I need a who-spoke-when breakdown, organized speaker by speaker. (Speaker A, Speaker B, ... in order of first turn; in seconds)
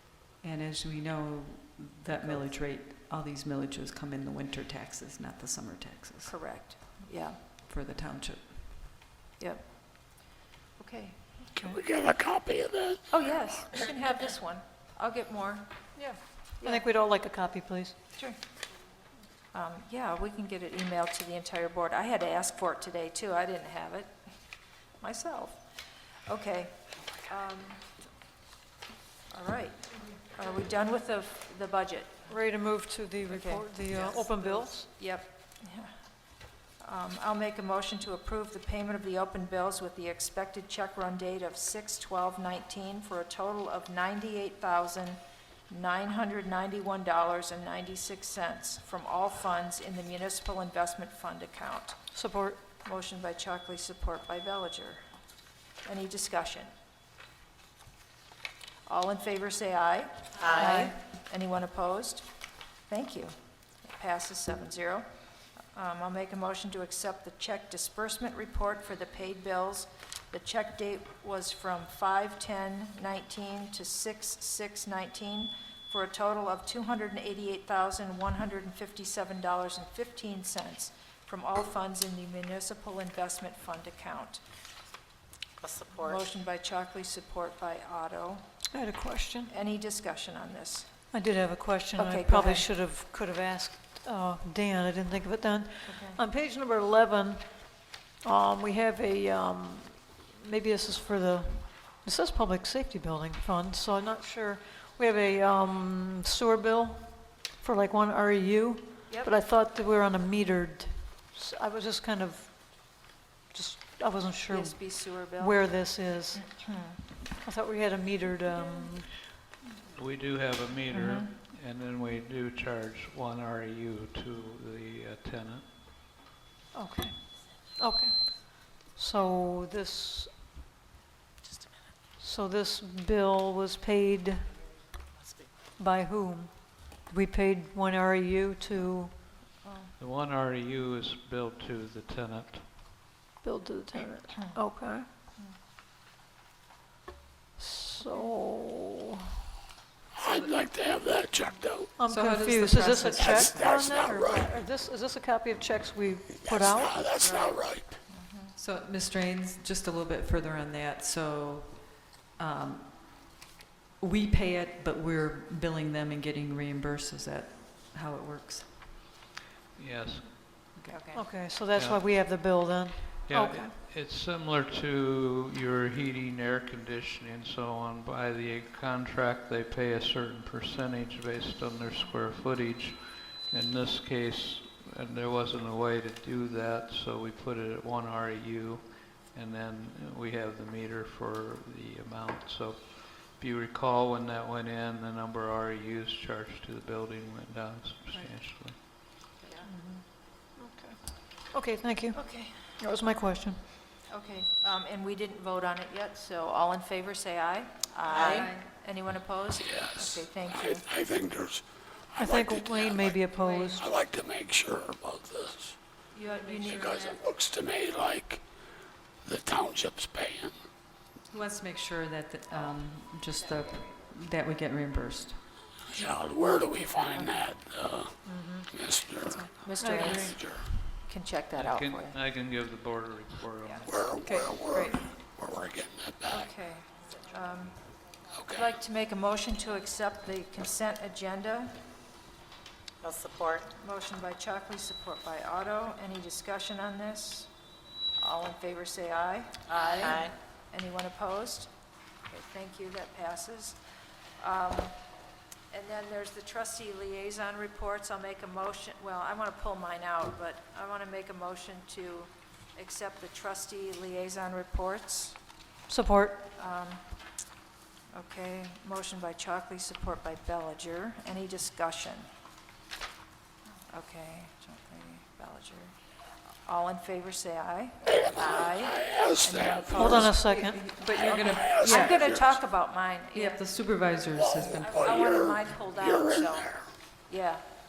Speaker A: 0.4-6.8, 7.5-8.9, 152.0-153.6, 158.5-163.4, 164.0-168.8, 170.8-171.0, 216.3-217.1, 221.3-225.6, 234.2-235.1, 280.3-282.3, 283.3-285.1
Speaker B: 6.2-7.5, 9.4-11.5, 13.1-15.7, 16.6-16.8, 19.5-27.9, 29.3-32.3, 33.3-52.0, 52.8-55.1, 55.8-56.7, 58.8-62.3, 62.9-84.4, 85.9-88.5, 89.5-90.9, 92.0-92.7, 95.9-96.2, 114.5-117.1, 118.6-118.8, 120.9-121.3, 139.5-139.9, 148.0-148.3, 157.2-158.5, 170.8-171.3, 199.4-199.7, 202.1-202.8, 204.1-210.8, 213.4-213.7, 216.1-217.1, 227.1-227.4, 229.4-232.2, 233.6-233.9, 236.3-238.0, 238.5-241.8, 243.7-247.5, 248.2-251.7, 252.3-253.8, 254.4-255.1, 255.7-265.4, 266.5-267.0, 268.1-272.3, 273.9-276.0, 276.6-280.4, 281.9-283.6, 284.6-286.7, 287.3-287.6
Speaker C: 11.6-13.8, 150.1-152.0, 153.2-154.5, 156.4-158.0, 207.9-208.5, 209.6-213.2, 213.7-215.8, 216.5-218.4, 219.2-220.6, 225.9-228.2, 228.7-230.7, 233.9-236.5, 238.3-238.7, 249.9-250.3, 278.1-280.4, 281.1-282.6, 284.4-286.9
Speaker D: 15.9-17.9, 32.3-34.9, 52.1-52.6, 88.7-89.5, 91.1-116.5, 117.4-119.2, 126.7-130.4, 132.2-134.5, 135.8-139.2, 143.4-145.1, 147.6-148.9, 152.0-157.1, 171.1-173.7, 199.6-203.7, 212.2-213.8, 228.2-228.7, 229.8-230.4, 265.9-266.5, 279.9-280.8
Speaker E: 60.4-60.9, 85.6-86.2, 131.4-131.7, 135.2-135.5, 243.0-243.7, 249.7-250.3
Speaker F: 119.9-125.7, 140.0-142.7, 169.8-170.4, 171.7-172.0, 173.2-198.8, 231.5-234.2